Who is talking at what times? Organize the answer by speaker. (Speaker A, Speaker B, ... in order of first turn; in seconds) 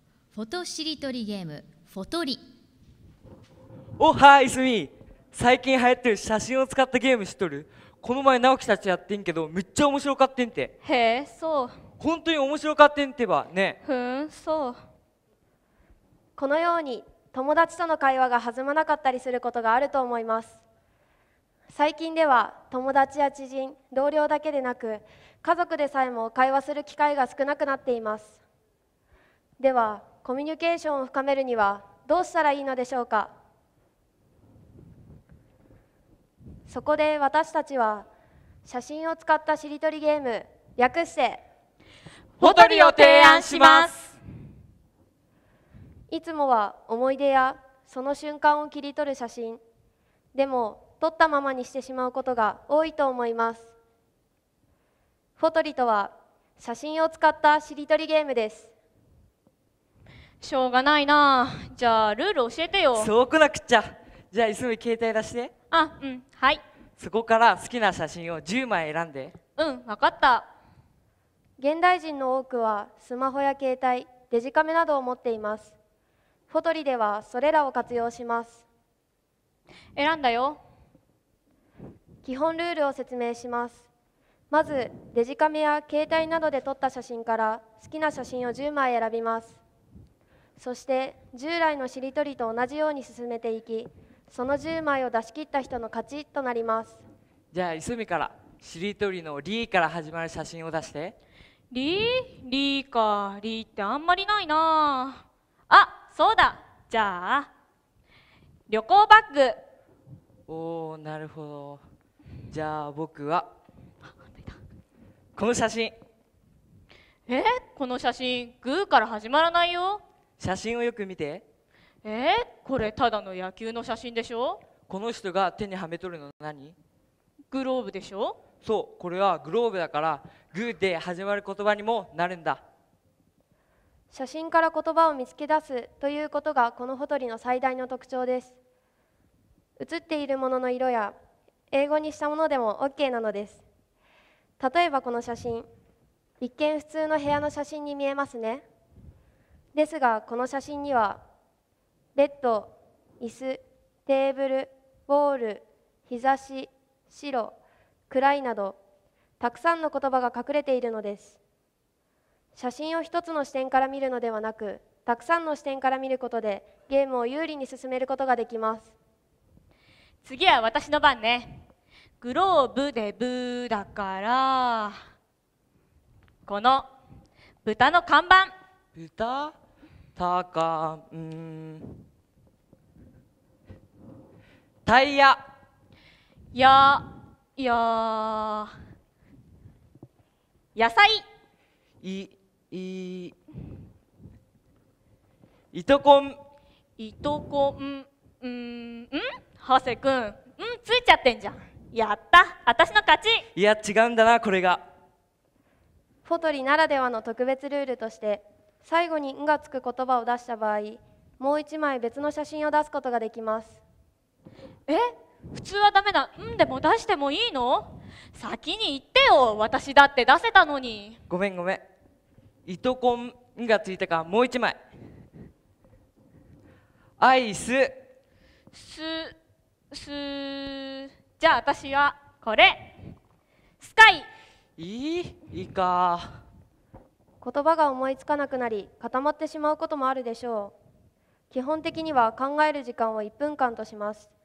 Speaker A: 0.3-2.4
Speaker B: 4.0-10.7, 12.0-13.8, 42.4-43.9, 62.9-65.5, 67.0-69.3, 97.5-101.1, 110.5-111.8, 112.5-113.5, 115.3-115.9, 120.4-121.4, 124.9-126.7, 128.6-132.6, 178.9-179.5, 180.2-182.0, 184.8-185.4, 192.0-193.3, 195.7-196.4, 203.5-204.8, 221.3-221.8, 222.7-224.8, 227.2-227.9, 234.8-236.4
Speaker C: 10.8-11.8, 13.8-14.8, 42.4-44.2, 60.4-63.1, 65.7-66.6, 69.5-70.5, 80.0-80.6, 101.7-107.5, 108.7-109.6, 114.2-114.6, 117.3-120.0, 122.0-124.6, 127.5-128.4, 170.2-171.6, 172.2-174.9, 176.4-176.9, 177.6-178.5, 186.5-188.7, 190.8-191.2, 197.0-203.4, 214.9-221.2, 228.7-229.3, 229.9-232.9, 233.8-234.3
Speaker D: 16.4-20.6, 21.7-28.4, 29.6-33.3, 36.7-38.1, 38.6-41.4, 46.1-49.6, 50.3-53.7, 55.4-58.7, 71.6-75.7, 76.5-78.6, 82.2-83.8, 84.5-89.6, 90.6-97.0, 134.1-138.5, 139.8-141.1, 141.7-143.6, 144.6-145.7, 146.4-148.6, 149.7-151.2, 152.1-157.6, 158.1-158.8, 159.4-161.4, 162.6-168.9, 206.2-213.8, 237.4-240.7, 241.5-244.3